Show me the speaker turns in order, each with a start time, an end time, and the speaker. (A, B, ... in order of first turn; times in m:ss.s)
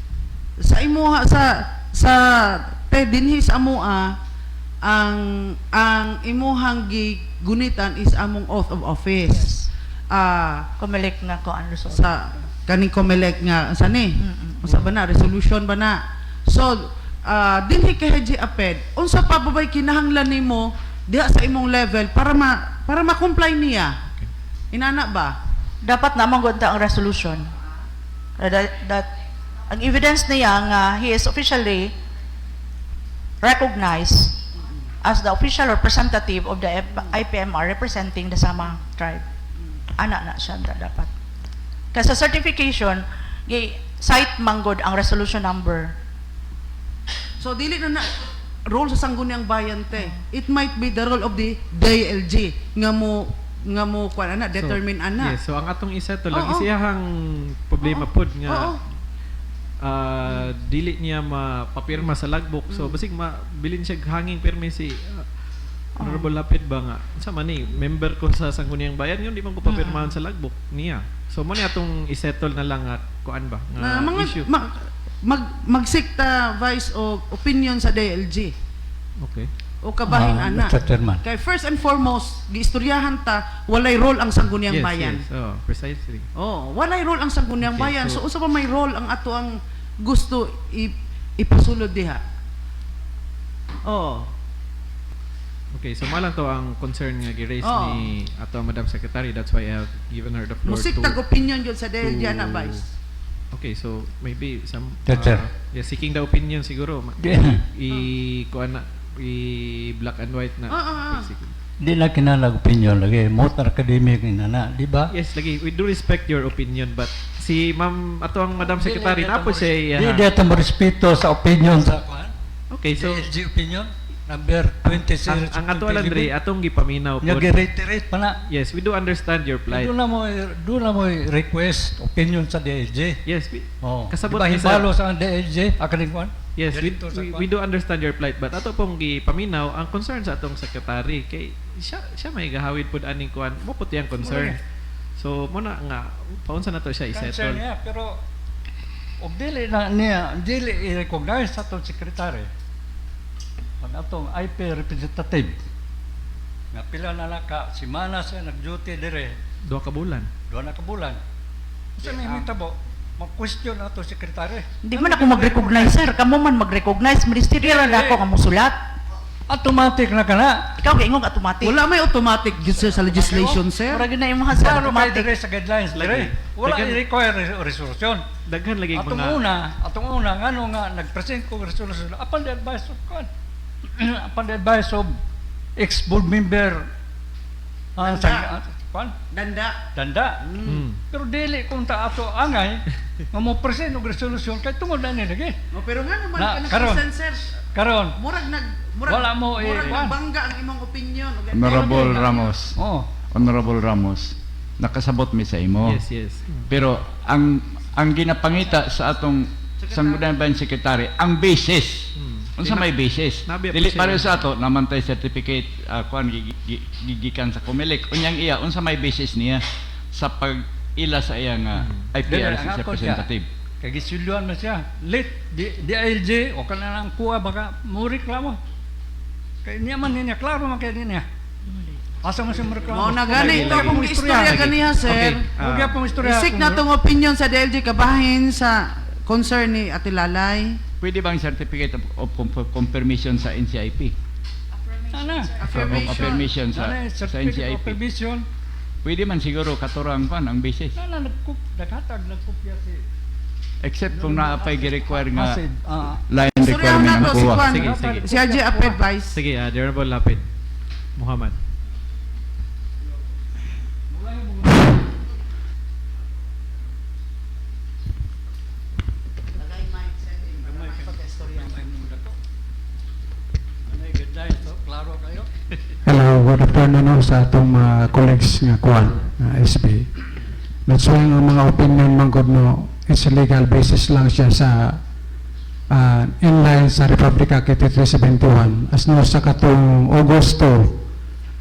0:00.6-0:04.2 A
0:04.8-0:09.5 A
0:09.3-0:09.7 B
0:10.1-0:10.7 A
0:10.8-0:12.1 B
0:11.9-0:24.0 A
0:14.2-0:14.8 B
0:24.7-0:25.4 A
0:25.8-0:27.5 B
0:28.4-0:29.1 B
0:29.7-0:31.9 B
0:33.4-0:34.4 B
0:35.0-0:39.2 B
0:39.9-0:41.1 B
0:41.9-0:45.9 B
0:47.4-0:55.4 A
0:54.6-0:58.8 C
0:56.3-0:56.7 A
0:57.8-0:58.8 A
0:59.8-1:05.3 C
1:02.7-1:03.0 A
1:06.0-1:06.3 B
1:06.0-1:14.5 C
1:09.6-1:10.2 B
1:13.8-1:18.5 A
1:19.2-1:19.5 C
1:19.8-1:25.2 A
1:20.0-1:21.2 D
1:24.7-1:26.3 C
1:26.4-1:32.2 A
1:27.6-1:28.2 C
1:33.8-1:34.3 A
1:35.7-1:41.2 C
1:37.6-1:38.0 A
1:40.6-1:42.8 A
1:42.3-1:42.7 D
1:43.5-1:51.6 C
1:45.1-1:45.4 D
1:47.2-1:47.6 D
1:50.7-1:51.3 A
1:51.8-1:55.1 D
1:55.1-2:00.3 C
1:58.6-2:02.3 D
2:02.7-2:03.3 C
2:03.0-2:06.3 D
2:05.3-2:07.5 C
2:07.2-2:08.4 D
2:08.5-2:09.9 C
2:09.7-2:13.2 D
2:13.2-2:14.9 C
2:13.8-2:17.5 D
2:16.6-2:24.6 C
2:24.2-2:24.6 D
2:25.2-2:27.6 C
2:27.1-2:28.2 D
2:29.2-2:32.5 D
2:33.8-2:35.6 D
2:36.7-2:39.4 D
2:39.7-2:40.3 C
2:40.5-2:41.2 D
2:42.0-2:46.0 D
2:44.8-2:48.8 B
2:47.6-2:48.2 D
2:49.5-2:50.7 D
2:50.8-2:51.8 B
2:51.6-2:54.0 A
2:52.9-2:53.6 D
2:53.9-2:55.3 B
2:54.5-2:58.2 D
2:55.9-2:57.0 C
2:58.5-2:59.4 C
2:58.9-3:03.3 D
3:04.0-3:05.2 D
3:05.8-3:06.8 D
3:08.0-3:09.1 D
3:08.0-3:08.5 A
3:09.3-3:09.8 A
3:10.0-3:10.4 D
3:10.4-3:10.9 A
3:10.7-3:11.0 C
3:11.1-3:15.6 D
3:15.7-3:17.5 A
3:16.4-3:17.1 D
3:17.7-3:18.2 D
3:18.2-3:22.6 A
3:19.1-3:20.2 D
3:21.5-3:22.8 E
3:22.8-3:23.1 D
3:23.3-3:26.0 E
3:25.8-3:26.7 C
3:26.7-3:43.5 E
3:29.8-3:30.3 A
3:32.2-3:32.9 C
3:33.4-3:34.5 C
3:41.8-3:42.1 C
3:42.2-3:43.3 D
3:43.8-3:48.6 D
3:49.6-3:51.2 D
3:52.2-3:54.8 D
3:52.9-3:55.5 A
3:53.5-3:56.0 C
3:55.6-3:56.8 D
3:56.2-4:00.8 A
4:01.0-4:04.2 E
4:05.1-4:08.5 D
4:05.6-4:06.5 A
4:05.7-4:08.0 E
4:09.0-4:11.0 E
4:11.0-4:13.0 D
4:13.8-4:15.6 E
4:14.1-4:16.2 D
4:16.3-4:17.7 E
4:16.5-4:19.4 A
4:17.3-4:19.0 D
4:17.4-4:18.3 C
4:19.3-4:20.4 C
4:21.2-4:21.6 C
4:24.1-4:25.0 D
4:29.6-4:31.7 A
4:30.6-4:32.4 D
4:33.9-4:35.5 D
4:36.0-4:40.1 F
4:40.9-4:45.0 F
4:45.9-4:51.0 F